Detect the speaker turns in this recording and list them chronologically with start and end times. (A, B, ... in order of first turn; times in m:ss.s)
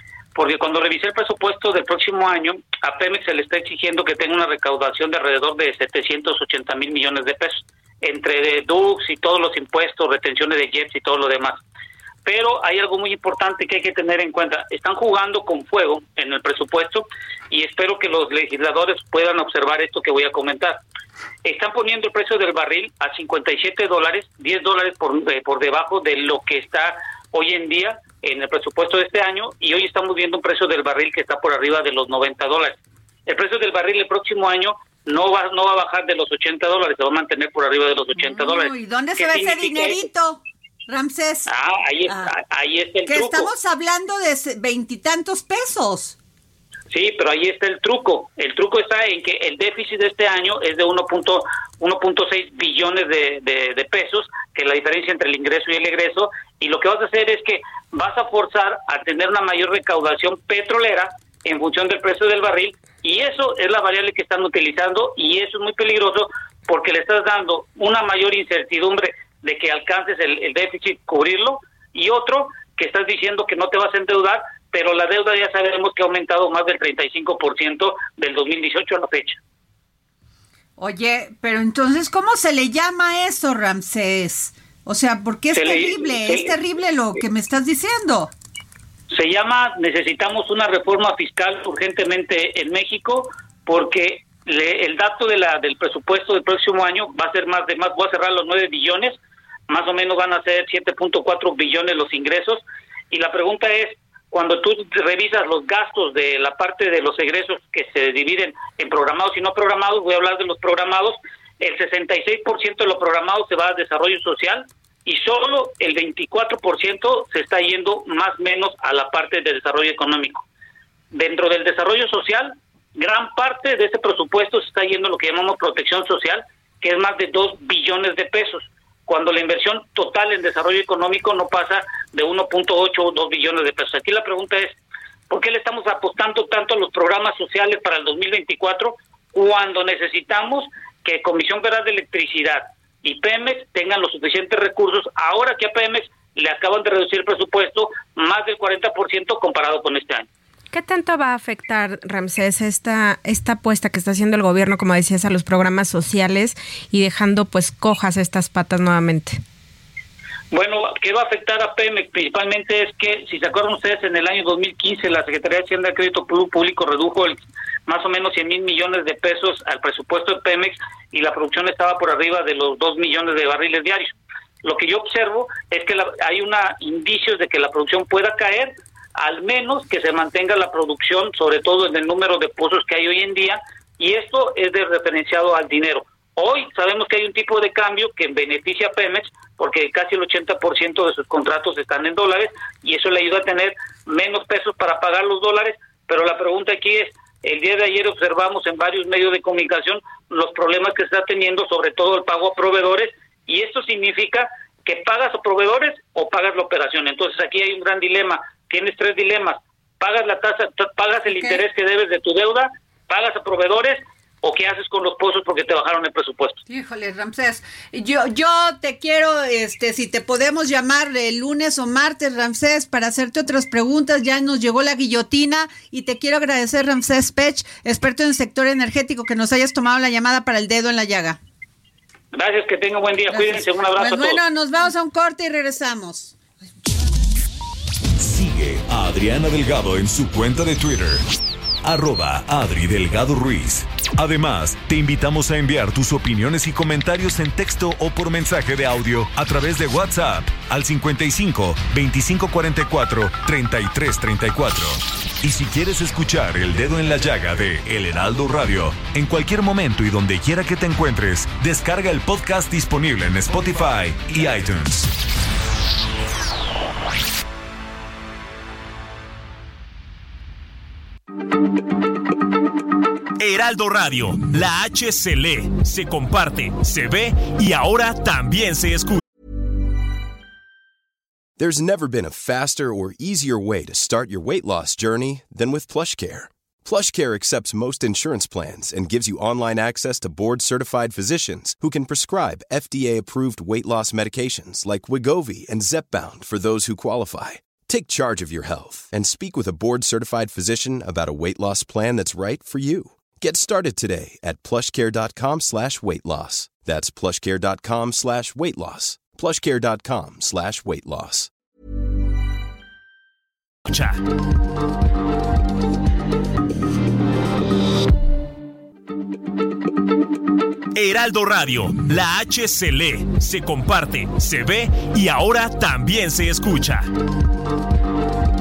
0:00.4-0:11.6 A
0:12.2-0:20.8 A
0:21.4-0:40.0 A
0:38.2-0:41.5 B
0:41.5-0:43.5 A
0:42.1-0:42.3 B
0:43.0-0:46.2 B
0:46.9-1:19.4 A
1:20.8-1:28.3 B
1:25.5-1:26.5 A
1:29.1-1:39.2 A
1:39.7-2:00.4 A
2:01.1-2:14.8 A
2:15.3-2:30.3 A
2:30.7-2:39.4 C
2:40.5-3:36.6 A
3:31.3-3:31.6 B
3:36.7-3:51.4 B
3:52.3-3:54.4 A
3:53.3-3:56.4 B
3:58.2-4:01.3 D
4:01.8-4:25.1 D
4:33.4-4:39.2 E
4:41.6-5:11.5 F
5:13.9-5:14.2 E
5:21.0-5:27.1 E